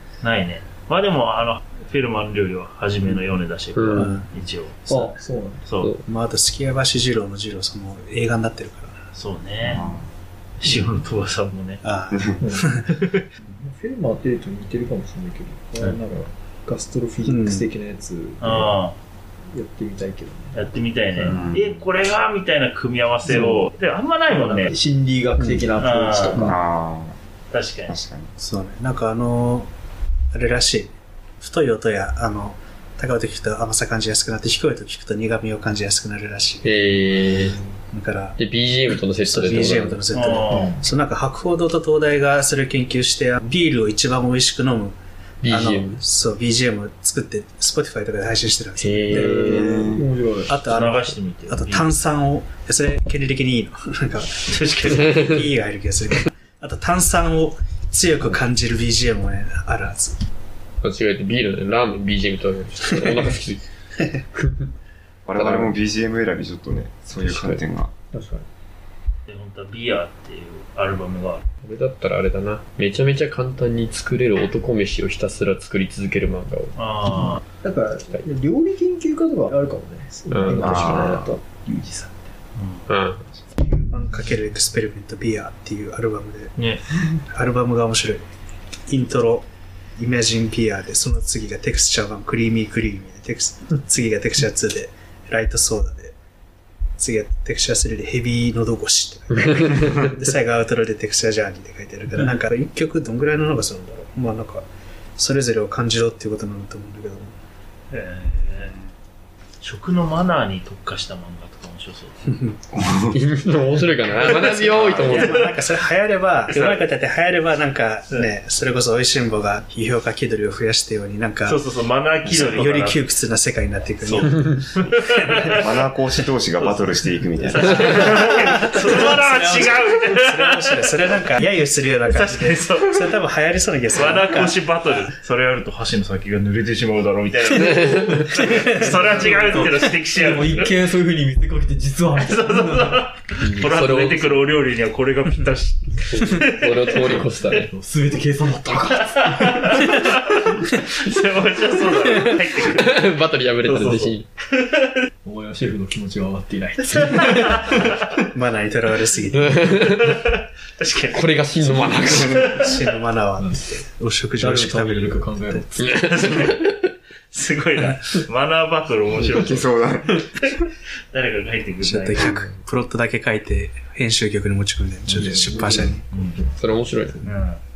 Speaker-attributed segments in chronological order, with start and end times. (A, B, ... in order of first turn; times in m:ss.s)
0:00.2-0:05.9 A
0:03.7-0:04.1 B
0:03.9-0:04.3 C
0:04.9-0:05.7 D
0:06.0-0:09.0 C
0:09.1-0:09.9 A
0:09.6-0:10.1 E
0:10.6-0:11.8 A
0:11.8-0:12.9 C
0:12.1-0:12.4 E
0:12.4-0:12.7 D
0:12.8-0:13.3 A
0:13.6-0:18.7 D
0:17.2-0:17.7 C
0:18.4-0:19.0 A
0:19.5-0:21.4 D
0:20.5-0:24.7 A
0:21.2-0:21.9 E
0:24.3-0:26.6 D
0:25.4-0:25.7 C
0:25.8-0:26.5 A
0:26.4-0:27.2 E
0:27.5-0:28.0 A
0:27.8-0:28.3 E
0:28.4-0:29.7 C
0:30.3-0:36.7 C
0:36.6-0:37.6 B
0:37.9-0:38.4 C
0:38.4-0:40.0 B
0:39.3-0:45.0 C
0:40.1-0:40.8 A
0:45.4-0:46.0 B
0:45.5-0:49.3 C
0:48.8-0:49.7 B
0:49.1-0:50.5 D
0:49.5-0:50.1 E
0:50.5-1:00.2 C
0:50.6-0:51.9 A
0:54.4-0:55.2 A
1:00.8-1:03.6 B
1:04.4-1:04.7 B
1:05.2-1:07.9 E
1:05.4-1:05.8 B
1:07.1-1:07.6 B
1:08.1-1:08.4 D
1:09.3-1:11.4 A
1:11.6-1:16.7 B
1:16.7-1:17.4 A
1:17.6-1:21.4 D
1:20.3-1:21.3 B
1:20.5-1:21.3 E
1:21.6-1:22.9 A
1:22.9-1:23.2 B
1:23.8-1:26.5 C
1:26.6-1:26.8 A
1:27.3-1:28.2 C
1:28.9-1:29.4 C
1:30.0-1:36.1 C
1:37.0-1:44.6 C
1:45.2-1:47.3 C
1:47.9-1:48.8 A
1:49.6-1:52.3 A
1:52.3-1:52.5 C
1:52.7-1:53.3 E
1:53.1-1:55.5 B
1:54.2-1:55.6 A
1:54.5-1:55.1 E
1:55.0-2:01.6 C
1:56.5-1:56.8 A
2:01.4-2:03.0 A
2:02.2-2:04.8 C
2:04.0-2:05.6 A
2:05.6-2:08.1 E
2:06.6-2:06.9 A
2:07.5-2:10.4 A
2:08.8-2:14.5 C
2:12.1-2:13.1 A
2:13.9-2:20.7 A
2:17.7-2:18.2 B
2:18.4-2:23.0 D
2:22.1-2:27.2 A
2:23.4-2:24.4 B
2:26.1-2:27.7 B
2:27.6-2:29.9 D
2:28.9-2:33.0 A
2:32.7-2:34.3 B
2:33.6-2:35.0 A
2:35.2-2:37.8 D
2:37.0-2:38.2 A
2:38.2-2:39.8 C
2:39.3-2:40.1 B
2:39.8-2:41.4 A
2:41.1-2:42.5 B
2:41.6-2:42.7 E
2:42.3-2:42.8 A
2:42.5-2:45.7 C
2:43.4-2:43.7 D
2:44.4-2:45.9 D
2:45.8-2:46.8 B
2:45.9-2:46.7 A
2:47.3-2:49.8 A
2:49.3-2:50.6 E
2:50.5-2:52.3 A
2:51.8-2:56.0 C
2:55.1-2:56.5 D
2:56.1-2:56.4 A
2:56.6-2:57.2 B
2:57.2-2:57.6 A